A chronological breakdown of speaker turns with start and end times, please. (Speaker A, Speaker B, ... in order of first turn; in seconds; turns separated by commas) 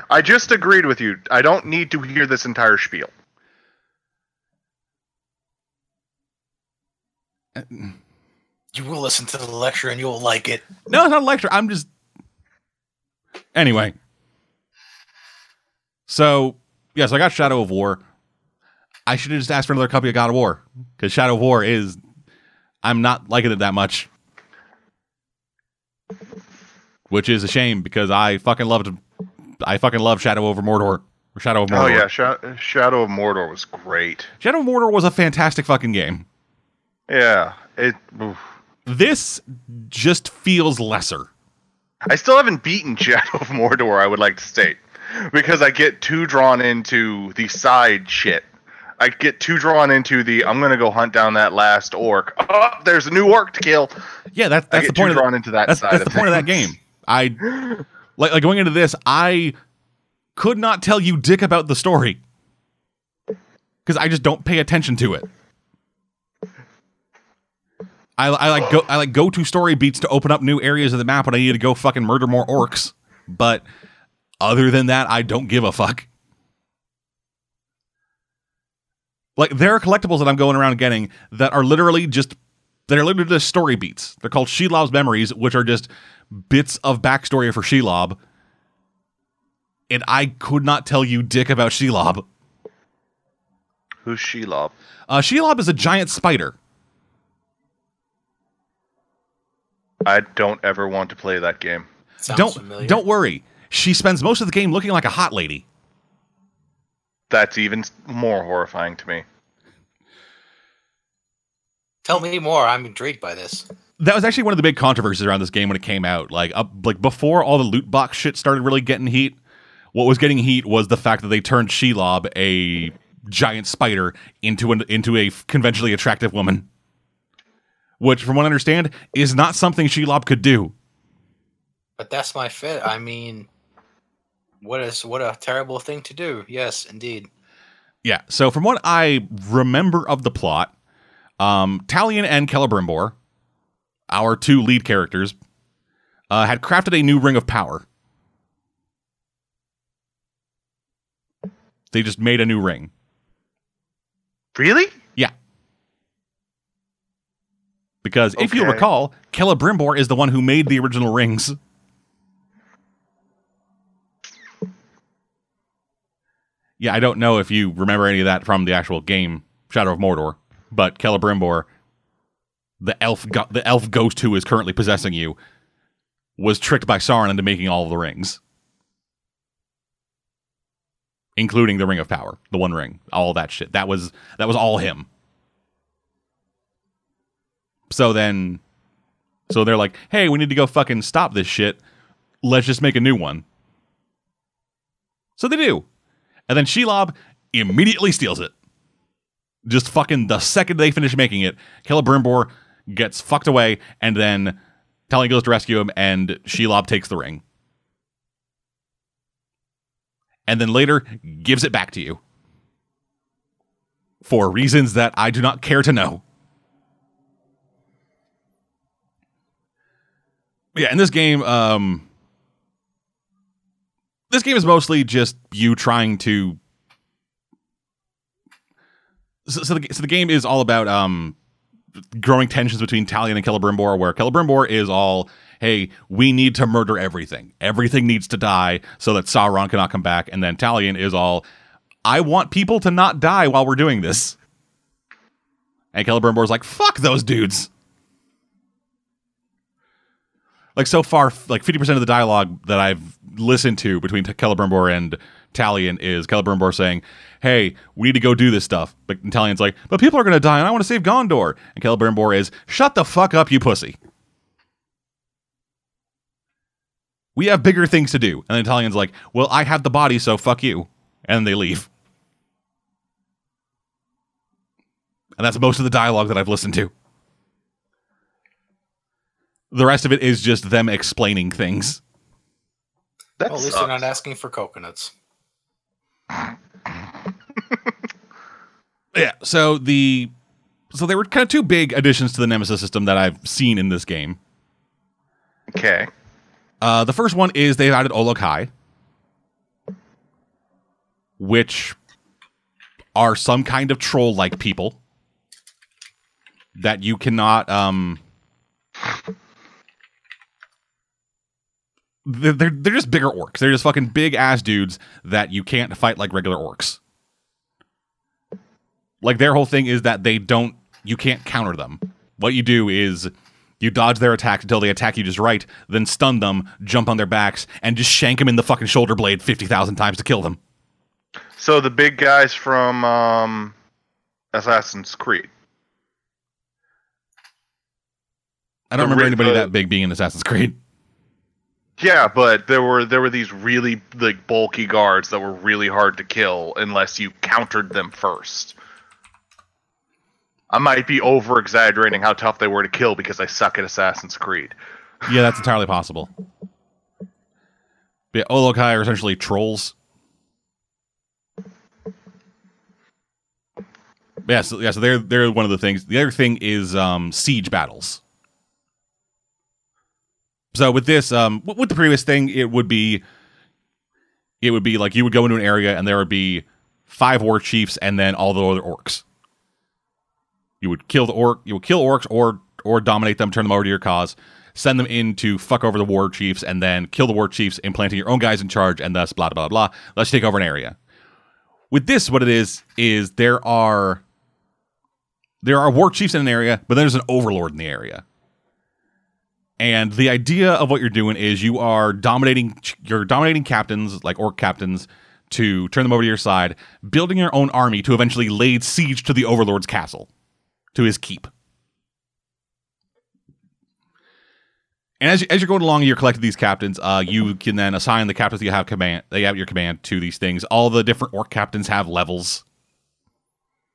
Speaker A: 0.1-3.1, Speaker B: 7.5-8.0, Speaker C: 8.7-10.9, Speaker B: 10.9-11.9, Speaker B: 13.5-13.9, Speaker B: 16.1-18.0, Speaker B: 19.1-22.0, Speaker B: 22.8-24.1, Speaker B: 27.1-29.0, Speaker B: 29.6-32.0, Speaker A: 31.7-34.3, Speaker B: 34.4-36.2, Speaker A: 37.1-38.4, Speaker B: 38.9-41.3, Speaker A: 42.1-48.5, Speaker A: 49.0-53.9, Speaker B: 54.4-59.5, Speaker A: 54.7-56.7, Speaker B: 60.4-62.2, Speaker B: 63.8-65.3, Speaker B: 68.2-73.6, Speaker B: 74.4-76.1, Speaker B: 79.4-82.4, Speaker B: 82.9-88.2, Speaker B: 89.9-92.2, Speaker A: 94.0-94.7, Speaker B: 95.1-96.5, Speaker A: 100.0-101.9, Speaker C: 102.2-103.0, Speaker B: 102.3-105.6, Speaker A: 107.3-109.2, Speaker C: 112.0-113.7, Speaker B: 114.0-119.4, Speaker B: 119.9-126.7, Speaker B: 128.0-130.7, Speaker C: 132.0-133.5, Speaker C: 134.6-137.3, Speaker B: 138.0-140.7, Speaker B: 141.4-143.1, Speaker B: 144.1-145.3, Speaker B: 146.3-147.8, Speaker B: 151.9-152.9, Speaker A: 154.5-154.9, Speaker B: 158.0-161.6, Speaker A: 158.3-158.8, Speaker B: 166.8-171.7, Speaker B: 172.8-175.4, Speaker B: 176.4-178.4, Speaker B: 181.3-185.1, Speaker B: 187.9-188.6, Speaker B: 189.5-191.8, Speaker B: 192.4-193.4, Speaker B: 195.4-195.8, Speaker B: 196.5-198.5, Speaker B: 199.6-204.6, Speaker B: 205.1-207.4, Speaker B: 210.5-212.2, Speaker B: 214.2-216.2, Speaker B: 220.7-222.1, Speaker B: 224.3-226.6, Speaker B: 229.4-231.3, Speaker B: 232.1-241.4, Speaker B: 242.0-244.4, Speaker B: 245.9-247.7, Speaker B: 250.8-264.0, Speaker B: 267.3-271.9, Speaker B: 275.4-276.9, Speaker B: 279.7-282.0, Speaker A: 283.4-284.1, Speaker C: 283.5-285.1, Speaker B: 289.1-290.3, Speaker B: 290.9-294.4, Speaker A: 295.7-296.1, Speaker B: 296.8-298.7, Speaker B: 301.4-301.9, Speaker B: 303.1-305.0, Speaker B: 306.8-308.2, Speaker B: 312.2-317.0, Speaker B: 319.2-330.6, Speaker A: 331.6-333.7, Speaker A: 334.5-335.5, Speaker B: 338.9-340.8, Speaker A: 339.0-339.7, Speaker A: 342.0-348.8, Speaker A: 350.7-354.7, Speaker B: 355.2-356.3, Speaker B: 358.3-359.9, Speaker B: 364.4-368.2, Speaker B: 370.7-373.2, Speaker B: 374.6-379.2, Speaker B: 380.8-390.9, Speaker B: 391.9-394.2, Speaker B: 395.6-398.2, Speaker B: 399.8-410.3, Speaker B: 410.9-411.5, Speaker B: 415.2-422.6